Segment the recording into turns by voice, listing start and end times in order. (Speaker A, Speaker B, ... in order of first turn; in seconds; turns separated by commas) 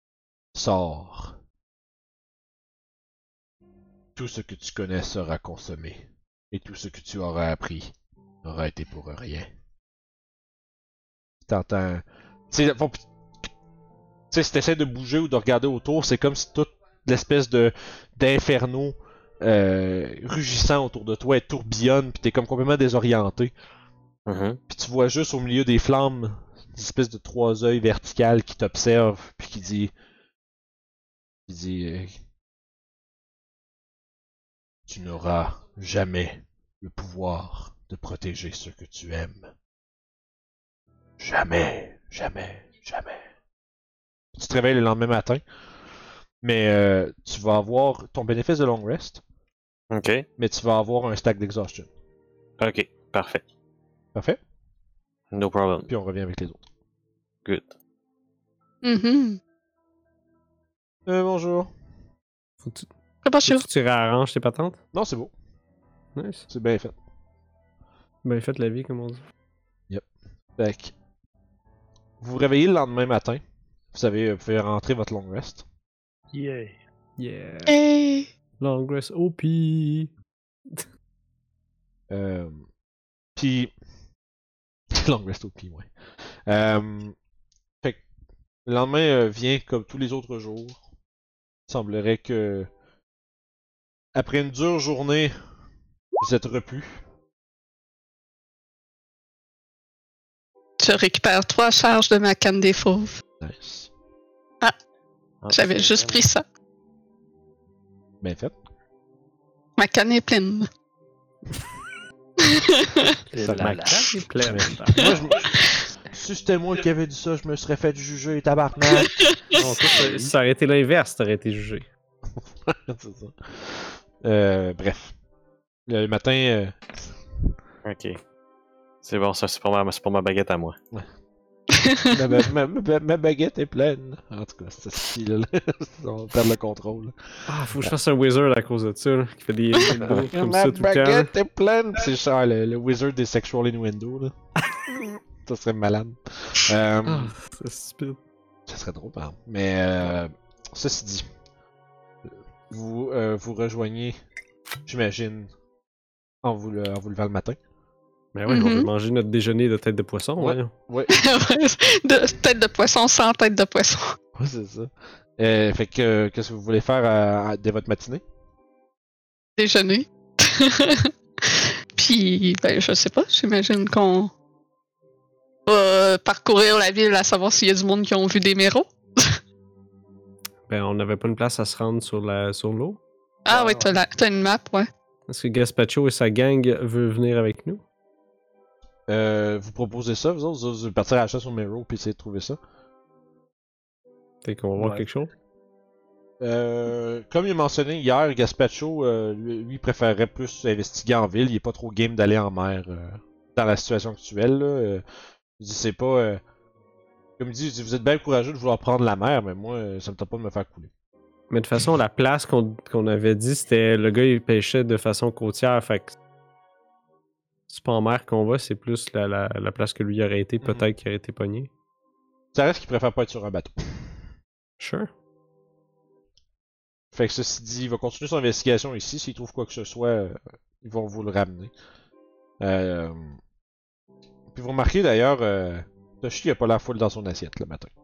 Speaker A: 0.5-1.4, Speaker A: 4.2-7.9, Speaker A: 8.4-9.5, Speaker A: 11.5-13.1, Speaker A: 14.3-23.5, Speaker B: 24.3-24.6, Speaker A: 24.7-29.9, Speaker A: 31.5-32.2, Speaker A: 34.9-39.5, Speaker A: 41.2-43.2, Speaker A: 44.4-45.4, Speaker A: 46.4-49.2, Speaker B: 49.9-50.3, Speaker A: 50.4-51.9, Speaker B: 52.6-53.4, Speaker B: 55.3-55.9, Speaker A: 55.9-56.6, Speaker B: 57.5-57.7, Speaker C: 58.8-59.4, Speaker A: 61.1-61.7, Speaker D: 62.6-62.9, Speaker C: 63.2-63.6, Speaker D: 63.5-64.8, Speaker A: 64.9-65.3, Speaker D: 66.2-66.5, Speaker A: 66.5-66.9, Speaker D: 68.2-69.2, Speaker A: 70.6-70.9, Speaker A: 72.2-73.4, Speaker A: 73.9-75.6, Speaker E: 76.3-76.8, Speaker D: 77.2-77.8, Speaker C: 77.7-78.3, Speaker D: 78.6-80.1, Speaker A: 82.1-82.7, Speaker A: 83.4-83.7, Speaker A: 84.9-85.9, Speaker A: 86.5-87.2, Speaker A: 88.7-90.8, Speaker A: 91.7-92.7, Speaker A: 94.2-95.3, Speaker A: 96.2-97.0, Speaker C: 100.8-103.2, Speaker A: 103.4-103.9, Speaker B: 105.4-106.2, Speaker C: 105.5-106.4, Speaker A: 108.2-108.5, Speaker C: 109.8-110.7, Speaker C: 112.4-113.2, Speaker E: 113.3-114.6, Speaker A: 113.4-113.9, Speaker D: 113.5-115.2, Speaker A: 114.4-119.1, Speaker C: 115.0-115.8, Speaker C: 118.9-119.6, Speaker D: 119.5-121.9, Speaker E: 119.6-120.3, Speaker A: 122.7-125.1, Speaker A: 125.9-127.1, Speaker B: 127.8-128.2, Speaker B: 129.0-130.8, Speaker C: 131.7-132.2, Speaker A: 132.1-137.9, Speaker D: 137.5-141.3, Speaker A: 139.9-144.3, Speaker A: 145.4-147.3, Speaker D: 147.1-148.2, Speaker A: 148.7-151.3, Speaker A: 152.3-154.2, Speaker A: 154.9-155.5, Speaker A: 156.4-157.6, Speaker D: 158.3-160.7, Speaker C: 158.5-158.9, Speaker A: 160.4-161.2, Speaker C: 161.1-164.2, Speaker A: 164.4-168.2, Speaker C: 169.6-174.3, Speaker C: 175.7-179.4, Speaker D: 180.7-183.0, Speaker C: 183.5-184.9, Speaker E: 183.5-184.0, Speaker D: 185.3-187.8, Speaker A: 189.1-192.6, Speaker D: 194.4-195.3, Speaker E: 194.8-195.1, Speaker A: 196.4-205.0, Speaker A: 205.6-206.4, Speaker A: 207.4-210.9, Speaker D: 211.5-216.2, Speaker D: 217.7-221.7, Speaker A: 222.5-224.1, Speaker D: 224.8-225.1, Speaker A: 227.1-231.7, Speaker A: 232.6-233.4, Speaker A: 234.5-237.9